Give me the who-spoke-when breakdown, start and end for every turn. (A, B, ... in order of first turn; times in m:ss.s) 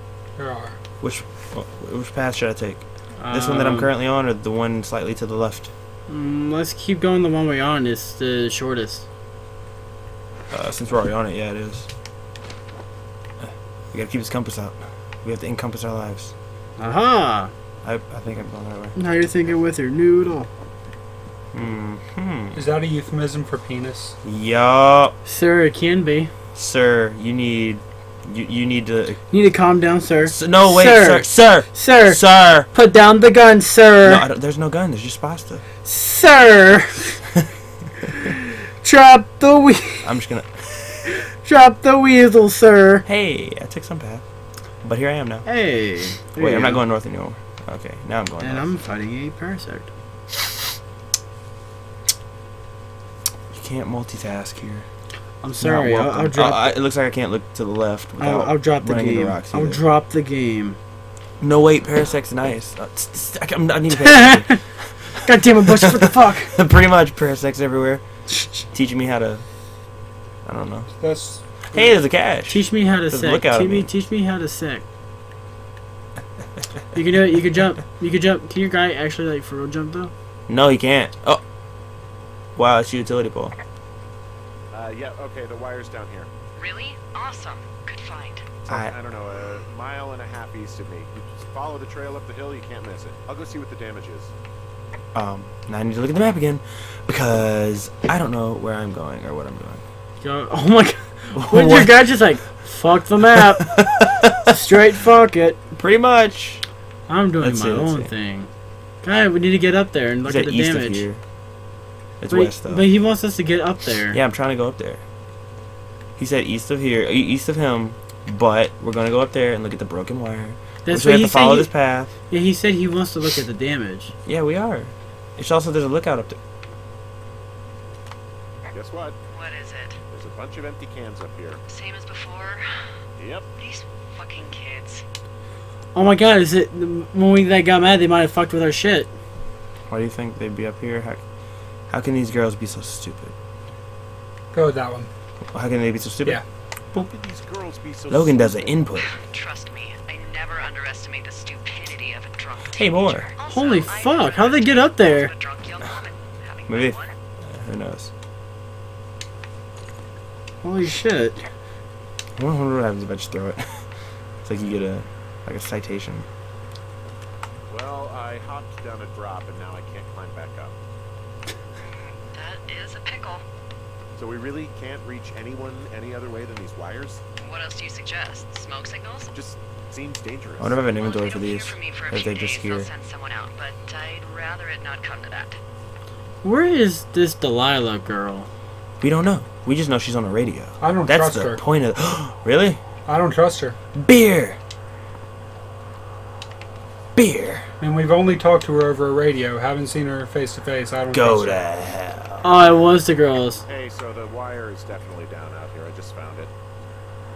0:00.4-0:00.8 A
0:01.0-0:05.7 B
0:03.2-0:03.9 C
0:06.1-0:09.0 C
0:10.5-0:11.9 B
0:13.4-0:16.3 B
0:16.8-0:17.5 C
0:17.8-0:19.0 B
0:19.0-0:20.5 C
0:21.5-0:22.6 B
0:22.5-0:24.2 A
0:24.2-0:25.1 B
0:25.2-0:26.3 C
0:26.5-0:29.2 B
0:29.3-0:34.2 C
0:30.2-0:32.7 B
0:34.0-0:35.6 B
0:35.8-0:37.2 C
0:38.0-0:40.1 C
0:40.0-0:41.2 B
0:41.0-0:43.0 C
0:43.0-0:44.2 B
0:44.8-0:45.4 B
0:45.4-0:46.8 C
0:46.4-0:48.7 B
0:48.4-0:49.9 C
0:53.5-0:54.9 B
0:55.4-0:56.7 C
0:55.6-0:59.8 B
0:58.2-1:00.8 C
1:01.4-1:09.4 B
1:04.0-1:06.6 C
1:10.4-1:10.9 B
1:10.9-1:11.9 A
1:11.7-1:13.9 B
1:12.5-1:14.8 C
1:16.9-1:20.1 C
1:20.5-1:21.4 B
1:22.6-1:23.5 B
1:24.7-1:26.3 D
1:26.6-1:28.5 E
1:28.6-1:34.3 D
1:28.7-1:28.9 B
1:35.1-1:39.8 B
1:40.2-1:43.9 C
1:41.3-1:42.0 B
1:43.4-1:44.5 B
1:44.4-1:45.6 C
1:45.7-1:46.6 B
1:47.1-1:48.5 C
1:47.4-1:48.1 B
1:49.0-1:51.0 C
1:50.2-1:51.2 B
1:52.2-1:52.8 B
1:52.3-1:54.2 C
1:54.1-1:55.0 B
1:56.2-2:02.1 B
2:00.8-2:04.1 C
2:04.2-2:06.4 B
2:08.7-2:09.2 D
2:09.3-2:10.0 E
2:10.1-2:11.6 D
2:11.7-2:13.0 E
2:13.2-2:13.4 D
2:13.6-2:15.0 E
2:15.9-2:19.1 C
2:19.9-2:21.2 B
2:21.9-2:23.3 B
2:24.5-2:25.1 A
2:25.5-2:26.4 B
2:26.9-2:28.9 D
2:28.1-2:29.2 B
2:29.0-2:37.1 E
2:32.8-2:33.3 B
2:33.5-2:35.3 C
2:36.7-2:38.1 B
2:40.6-2:41.4 C
2:42.4-2:43.9 B
2:44.4-2:46.3 B
2:47.7-2:50.7 D
2:51.8-2:53.4 E
2:54.2-2:57.2 D
2:57.4-2:59.3 E
2:59.3-3:00.8 D
3:00.6-3:02.9 B
3:00.9-3:05.6 E
3:06.4-3:08.5 C
3:09.0-3:12.8 B
3:10.8-3:11.6 A
3:13.0-3:13.8 A
3:13.9-3:14.6 B
3:17.2-3:17.7 B
3:17.8-3:21.6 A
3:21.1-3:22.5 B
3:22.4-3:23.6 C
3:23.7-3:26.5 D